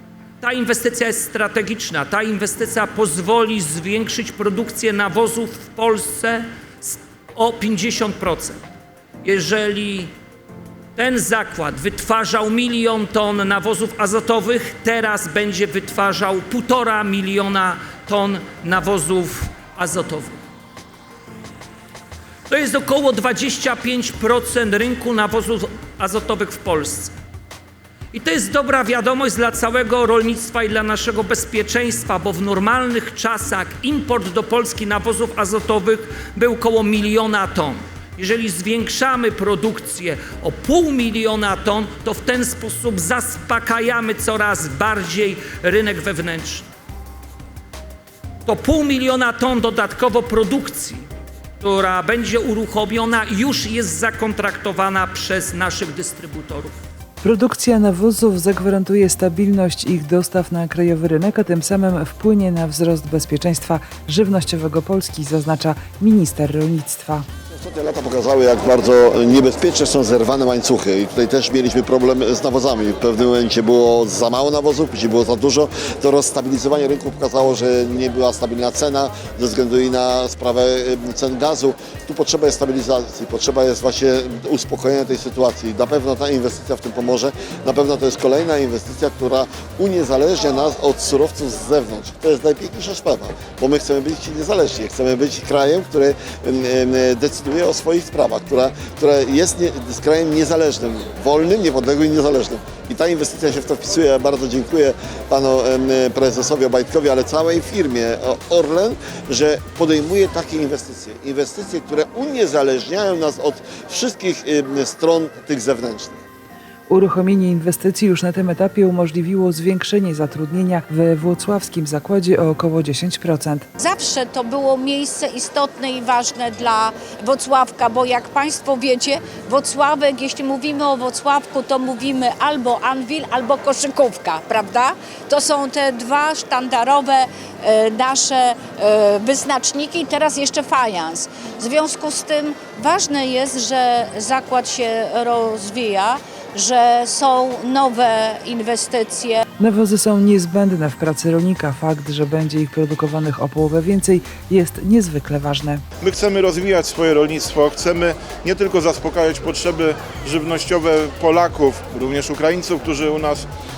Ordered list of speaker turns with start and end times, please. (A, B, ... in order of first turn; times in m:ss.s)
0:00.4-0:08.6 A
0:09.2-0:10.1 A
0:11.0-0:20.4 A
0:22.5-0:27.1 A
0:28.1-0:46.7 A
0:48.4-0:51.1 A
0:51.6-0:56.8 A
0:57.2-1:07.3 B
1:07.5-1:56.2 C
1:56.9-2:03.7 B
2:03.8-2:29.4 D
2:29.6-2:35.8 B
2:36.0-2:43.5 E